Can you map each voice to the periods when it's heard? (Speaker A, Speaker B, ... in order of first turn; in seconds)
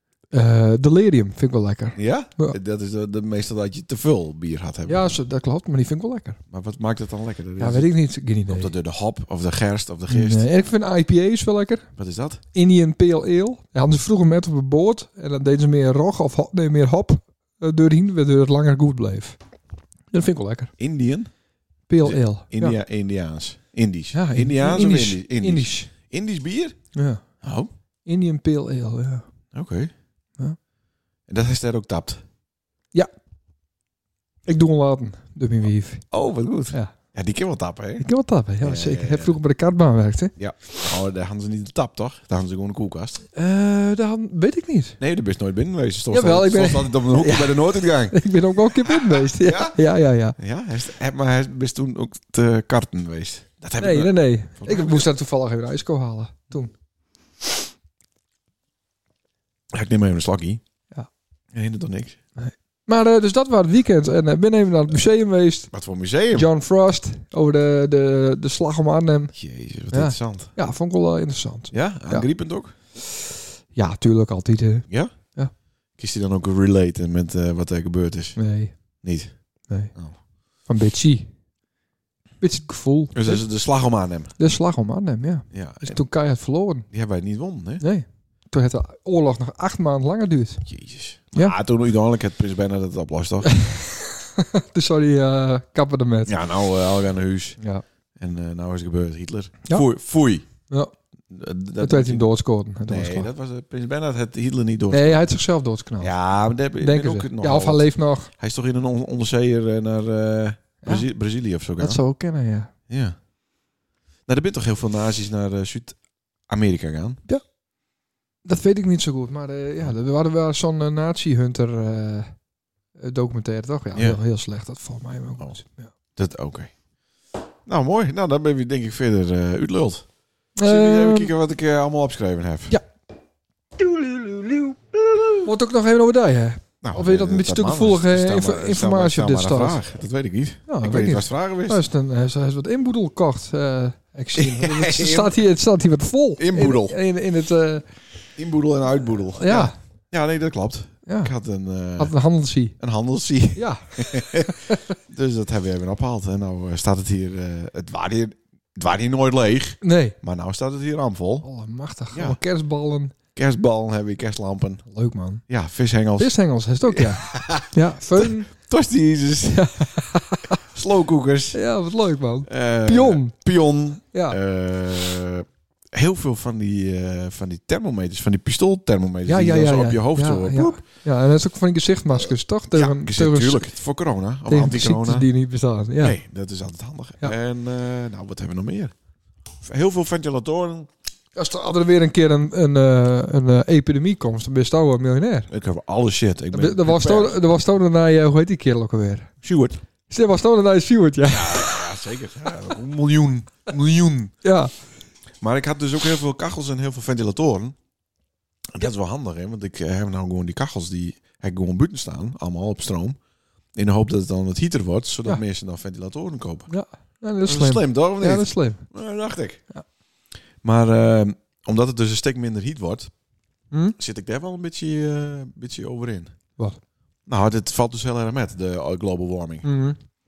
Speaker A: 0.3-2.6, 4.8-6.4, 7.6-8.7, 10.1-11.9, 12.5-19.4, 20.1-20.7, 21.9-22.8, 24.1-25.9, 26.9-27.2, 28.1-29.2, 34.5-36.0, 38.0-40.3, 43.3-45.0, 46.1-50.4, 53.8-56.7, 62.4-65.7, 66.3-69.3, 69.9-72.3, 73.7-75.5, 78.3-78.7, 80.7-81.3, 82.4-83.4, 84.4-86.9, 87.8-90.6, 93.4-96.4, 101.8-103.3, 104.9-106.1, 106.8-108.3, 111.8-112.7, 118.4-122.3, 123.0-125.9, 130.6-131.3, 135.4-139.8, 140.7-147.9, 149.3-149.7, 151.1-151.3, 152.0-152.8, 153.6-154.8, 159.8-160.2, 161.4-163.1, 164.9-165.4, 166.2-168.5, 169.5-170.6, 171.5-173.3, 174.1-174.4, 179.2-183.7, 184.5-186.2, 191.3-195.5, 196.5-199.3, 200.1-201.8, 204.4-204.7, 216.7-218.8, 223.7-223.9, 229.6-230.0
Speaker B: 1.9-5.2, 6.5-7.9, 8.5-10.5, 11.9-12.4, 20.8-21.3, 22.0-26.8, 27.4-27.7, 29.5-29.9, 31.3-32.2, 36.1-38.0, 38.6-39.4, 40.4-43.2, 45.0-48.2, 48.8-49.8, 50.4-55.1, 59.7-60.6, 61.5-62.2, 65.7-66.5, 69.3-70.5, 71.7-72.7, 76.0-78.4, 79.0-79.3, 83.1-84.3, 85.5-86.0, 86.9-87.8, 90.6-93.6, 96.2-97.6, 98.2-100.5, 101.3-102.3, 102.9-105.3, 106.0-112.0, 112.9-113.2, 114.3-116.0, 116.5-117.2, 123.9-124.2, 126.2-126.7, 127.7-130.0, 130.6-132.8, 136.8-141.8, 144.3-145.4, 146.4-147.0, 148.4-152.1, 152.8-161.4, 162.1-162.4, 163.3-164.8, 165.5-166.3, 166.9-169.7, 170.5-171.6, 172.4-180.8, 182.7-185.3, 186.0-188.9, 189.6-190.9, 195.5-197.4, 199.4-199.8, 201.2-204.3, 205.4-207.8, 208.7-213.2, 213.8-216.7, 217.4-219.6, 220.6-223.1, 223.9-226.3, 227.3-229.7